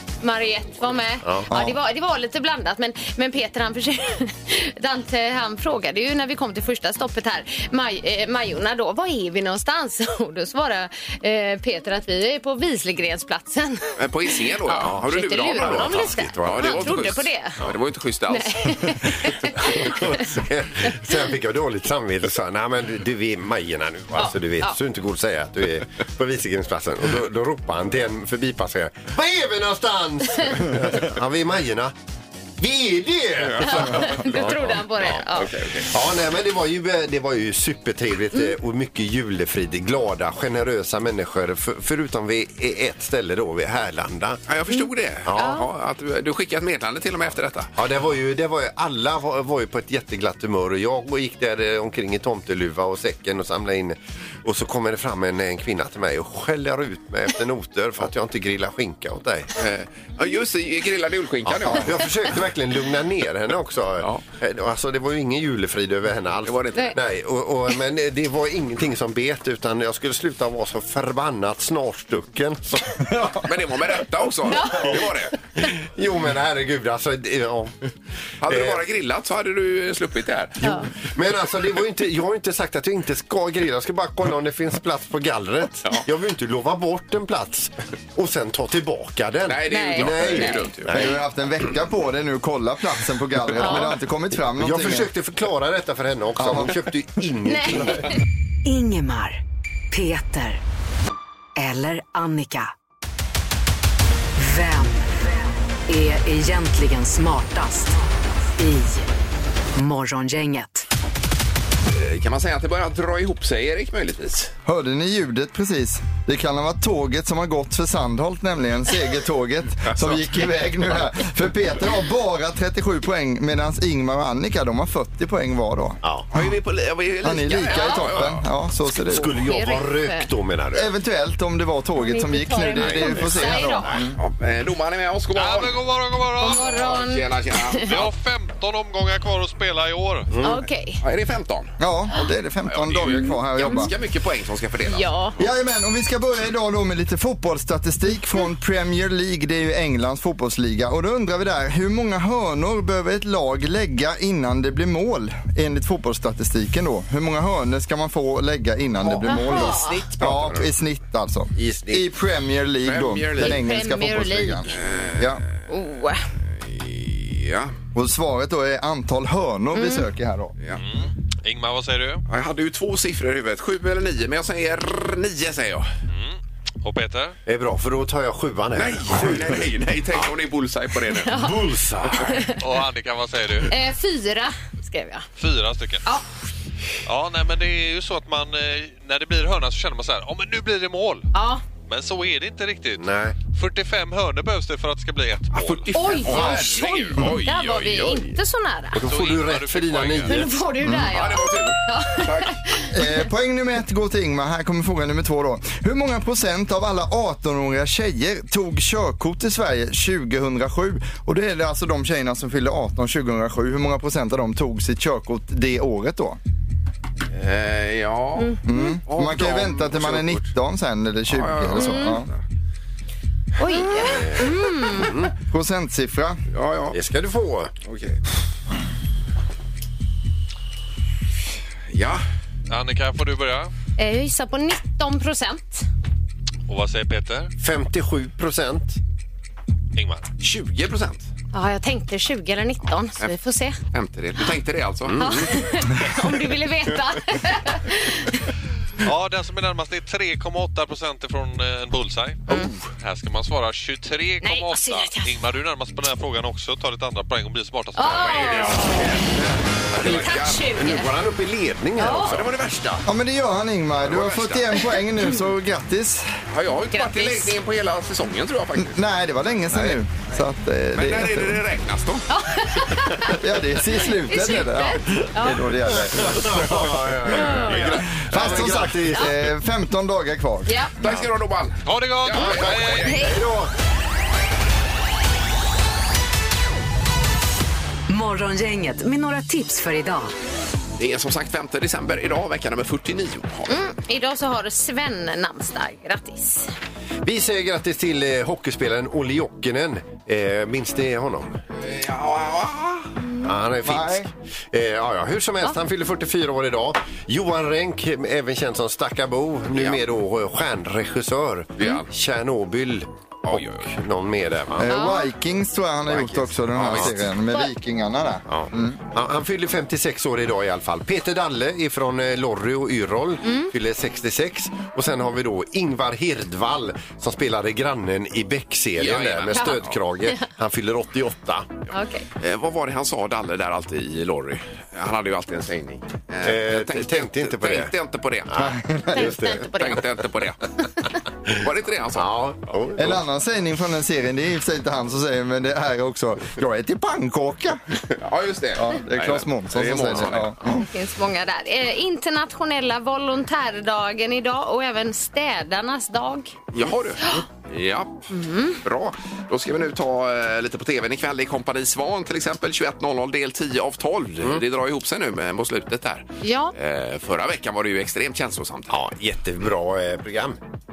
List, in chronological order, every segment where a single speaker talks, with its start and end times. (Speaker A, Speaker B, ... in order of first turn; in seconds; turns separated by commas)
Speaker A: 0.2-13.8, Speaker B: 1.2-1.5, Speaker C: 14.0-19.3, Speaker A: 14.6-17.6, Speaker B: 14.8-17.0, Speaker A: 18.3-20.3, Speaker B: 19.6-31.9, Speaker A: 24.1-24.8, Speaker B: 32.6-35.2, Speaker C: 33.5-35.9, Speaker A: 33.6-35.5, Speaker B: 35.8-44.4, Speaker C: 44.5-47.7, Speaker B: 45.2-45.6, Speaker A: 45.3-45.7, Speaker B: 47.8-59.5, Speaker C: 59.6-62.0, Speaker B: 61.5-73.2, Speaker C: 66.4-66.9, Speaker C: 73.4-75.3, Speaker A: 74.5-74.9, Speaker B: 75.6-77.7, Speaker C: 78.4-80.6, Speaker B: 78.5-78.8, Speaker A: 80.6-80.9, Speaker B: 80.7-91.2, Speaker C: 89.5-91.1, Speaker A: 89.7-90.7, Speaker D: 90.9-95.1, Speaker A: 93.6-93.9, Speaker B: 94.6-98.1, Speaker D: 96.4-96.7, Speaker A: 97.5-98.2, Speaker E: 98.6-99.4, Speaker E: 99.9-100.6, Speaker E: 101.5-102.7, Speaker E: 104.3-108.0, Speaker E: 108.6-109.1, Speaker E: 109.7-110.8, Speaker C: 111.9-114.5, Speaker D: 114.7-126.5, Speaker C: 119.9-120.5, Speaker C: 126.3-128.4, Speaker D: 127.2-129.3, Speaker A: 127.7-128.1, Speaker B: 129.0-130.9, Speaker A: 129.2-130.3, Speaker D: 130.7-134.2, Speaker A: 132.0-134.0, Speaker B: 132.8-134.1, Speaker C: 134.2-135.7, Speaker F: 135.3-137.0, Speaker A: 136.4-138.0, Speaker C: 136.9-137.9, Speaker F: 137.8-140.3, Speaker B: 140.3-140.6, Speaker A: 140.4-141.0, Speaker C: 141.0-141.7, Speaker D: 141.8-143.9, Speaker C: 142.7-145.1, Speaker A: 143.6-143.9, Speaker A: 144.8-145.3, Speaker D: 145.4-165.4, Speaker C: 159.0-160.7, Speaker A: 159.2-160.0, Speaker B: 161.5-162.1, Speaker C: 162.8-163.6, Speaker A: 163.4-164.7, Speaker C: 164.7-165.4, Speaker A: 165.7-166.2, Speaker C: 166.6-167.7, Speaker D: 167.9-170.6, Speaker A: 169.7-170.0, Speaker F: 170.7-172.2, Speaker C: 172.3-175.9, Speaker F: 176.1-177.3, Speaker B: 177.4-179.6, Speaker C: 178.8-181.3, Speaker A: 181.2-182.6, Speaker B: 181.3-182.3, Speaker F: 182.6-183.7, Speaker A: 183.7-185.2, Speaker F: 185.4-186.1, Speaker F: 187.1-191.3, Speaker A: 191.3-191.6, Speaker F: 191.9-195.9, Speaker B: 193.0-193.3, Speaker C: 195.5-198.3, Speaker A: 195.9-199.0, Speaker B: 196.2-196.8, Speaker B: 198.9-200.5, Speaker F: 199.0-200.4, Speaker A: 200.2-203.0, Speaker D: 200.8-201.1, Speaker C: 201.1-202.5, Speaker D: 202.9-216.4, Speaker C: 217.3-220.5, Speaker A: 218.4-218.9, Speaker D: 218.7-222.3, Speaker C: 221.3-222.4, Speaker A: 221.8-222.2, Speaker A: 223.6-225.1, Speaker B: 223.8-225.3, Speaker D: 225.5-226.4, Speaker C: 226.5-227.0, Speaker B: 226.9-227.7, Speaker C: 227.8-228.2, Speaker C: 231.9-232.2, Speaker F: 232.7-233.7, Speaker A: 234.0-235.8, Speaker F: 236.7-237.5, Speaker B: 237.6-239.0, Speaker F: 239.9-240.3, Speaker C: 240.4-241.3, Speaker A: 241.5-243.8, Speaker C: 243.9-245.3, Speaker B: 245.1-245.5, Speaker A: 245.2-248.4, Speaker F: 249.0-258.9, Speaker A: 254.4-255.3, Speaker A: 257.9-259.2, Speaker C: 258.2-260.7, Speaker A: 259.9-261.1, Speaker B: 260.7-262.5, Speaker A: 262.0-262.3, Speaker C: 262.2-263.0, Speaker D: 263.1-266.3, Speaker C: 264.0-265.0, Speaker C: 266.5-269.0, Speaker A: 266.9-267.5, Speaker D: 268.8-271.5, Speaker B: 269.7-270.0, Speaker C: 270.9-272.3, Speaker A: 272.3-273.4, Speaker D: 273.3-277.0, Speaker A: 274.0-275.6, Speaker B: 275.9-279.5, Speaker A: 277.3-277.8, Speaker C: 277.5-278.8, Speaker D: 278.2-280.7, Speaker A: 280.6-280.9, Speaker C: 281.0-283.2, Speaker F: 281.9-283.3, Speaker B: 282.3-283.7, Speaker E: 288.1-290.3, Speaker C: 291.0-293.7, Speaker A: 293.7-296.7, Speaker B: 297.2-301.6, Speaker C: 301.8-303.1, Speaker B: 303.4-314.9, Speaker D: 303.9-304.3, Speaker C: 309.7-310.0, Speaker C: 311.8-312.1, Speaker C: 313.4-313.9, Speaker D: 314.8-319.0, Speaker A: 314.9-315.3, Speaker C: 316.2-317.2, Speaker B: 316.8-317.1, Speaker B: 318.5-331.7, Speaker A: 323.4-323.7, Speaker C: 329.0-330.0, Speaker A: 329.6-330.4, Speaker A: 331.9-332.2, Speaker C: 332.4-338.6, Speaker B: 336.4-337.9, Speaker B: 338.5-339.8, Speaker D: 338.6-339.4, Speaker A: 339.1-340.0, Speaker C: 339.7-340.7, Speaker C: 341.5-342.4, Speaker B: 342.1-343.2, Speaker D: 343.0-347.8, Speaker C: 348.1-350.5, Speaker D: 348.8-350.9, Speaker A: 350.6-356.5, Speaker C: 356.7-358.3, Speaker A: 358.3-358.8, Speaker C: 358.8-369.0, Speaker A: 366.4-366.7, Speaker B: 368.9-370.6